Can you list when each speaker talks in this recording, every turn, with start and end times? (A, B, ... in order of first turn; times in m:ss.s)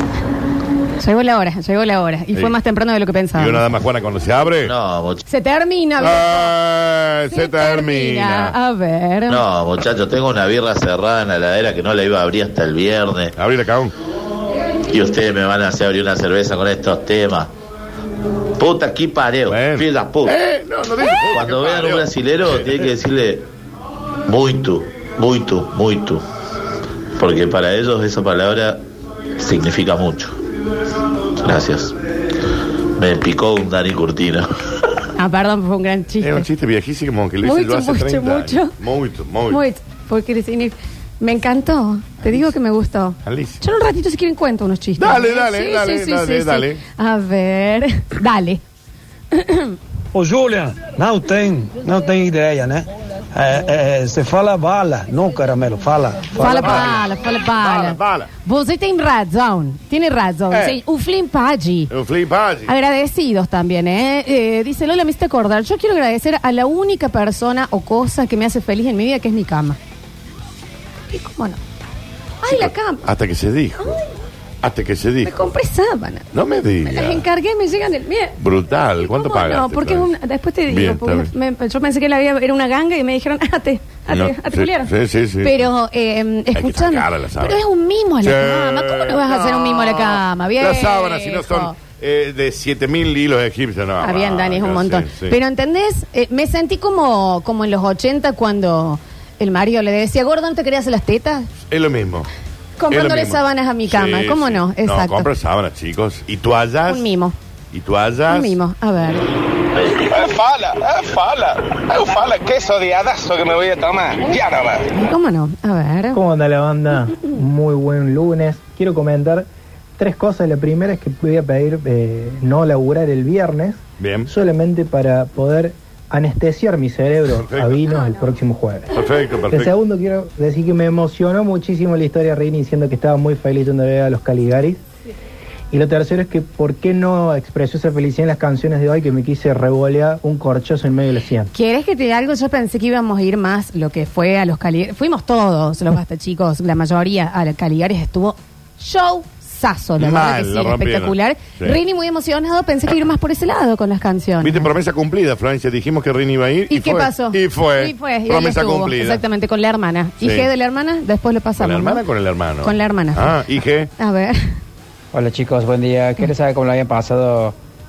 0:01.0-0:03.6 A
0:03.4-0:04.7 B
0:04.6-0:05.2 C
0:05.2-0:06.5 A
0:06.0-0:08.5 B
0:07.3-0:09.4 A
0:09.3-0:13.3 C
0:13.4-0:13.9 B
0:14.9-0:17.5 C
0:18.6-0:20.3 C
0:19.5-0:22.9 B
0:21.3-0:23.4 C
0:24.3-0:26.2 C
0:27.2-0:28.8 C
0:29.4-0:30.3 C
0:31.4-0:32.0 C
0:33.0-0:34.4 C
0:35.2-0:36.4 A
0:36.2-0:39.6 B
0:37.4-0:38.7 A
0:39.5-0:48.6 A
0:43.2-0:43.6 B
0:45.0-0:46.8 B
0:49.3-0:49.7 A
0:50.1-0:56.9 D
0:56.3-1:01.9 A
0:56.4-0:58.3 B
1:01.9-1:02.7 B
1:02.7-1:09.8 A
1:11.1-1:11.6 A
1:12.4-1:13.0 A
1:12.4-1:14.0 B
1:14.6-1:15.5 B
1:15.2-1:16.3 A
1:16.3-1:17.2 B
1:16.9-1:18.4 A
1:18.4-1:20.1 B
1:19.0-1:24.9 A
1:20.7-1:21.3 B
1:24.1-1:25.7 B
1:25.4-1:31.7 A
1:26.5-1:27.6 B
1:28.2-1:35.3 B
1:34.0-1:41.5 A
1:41.7-1:42.3 B
1:42.8-1:45.3 A
1:42.9-1:47.0 B
1:46.9-1:47.4 A
1:47.7-1:48.6 B
1:48.3-1:49.3 A
1:49.8-1:54.9 E
1:54.9-1:56.2 A
1:56.1-1:59.4 F
2:00.0-2:09.0 F
2:04.0-2:04.3 B
2:07.4-2:07.8 B
2:08.9-2:09.7 B
2:09.5-2:14.8 F
2:15.7-2:21.5 F
2:21.5-2:34.7 A
2:30.0-2:31.8 B
2:34.4-2:39.2 B
2:36.7-2:42.0 A
2:40.2-2:40.5 B
2:41.6-2:43.9 B
2:42.6-2:43.4 A
2:44.0-2:44.6 A
2:45.1-2:47.5 G